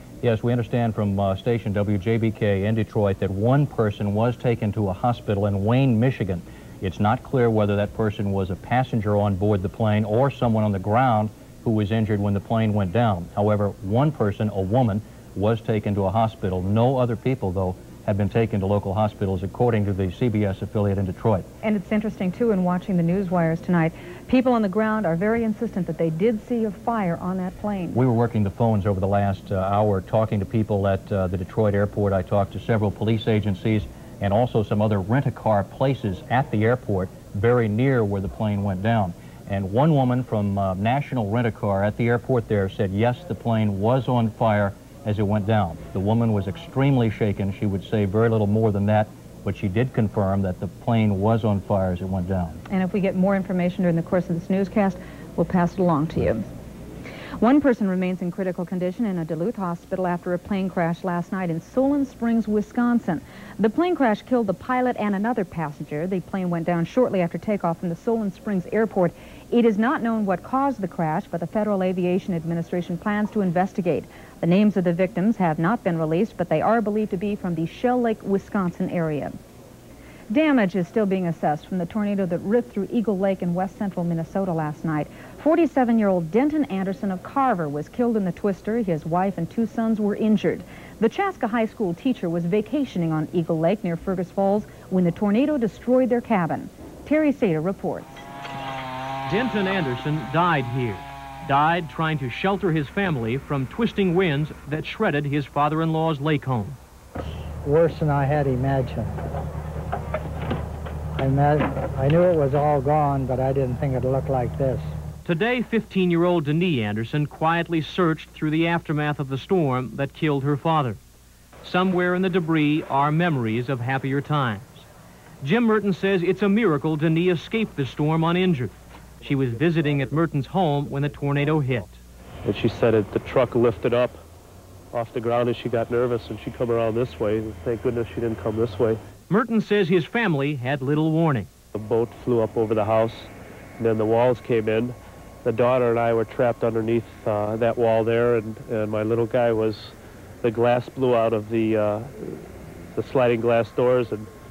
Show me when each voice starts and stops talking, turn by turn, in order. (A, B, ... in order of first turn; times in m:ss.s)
0:00.2-0:21.5 A
0:21.6-0:28.0 B
0:27.9-0:52.6 A
0:52.7-0:56.5 B
0:57.4-1:19.4 B
1:20.3-1:38.3 B
1:39.3-1:46.8 C
1:47.6-1:49.1 D
1:51.2-1:54.9 D
1:55.2-2:01.0 C
2:01.6-2:04.9 C
2:05.4-2:12.0 C
2:12.4-2:14.2 E
2:14.9-2:19.0 E
2:19.3-2:21.5 C
2:21.7-2:34.3 E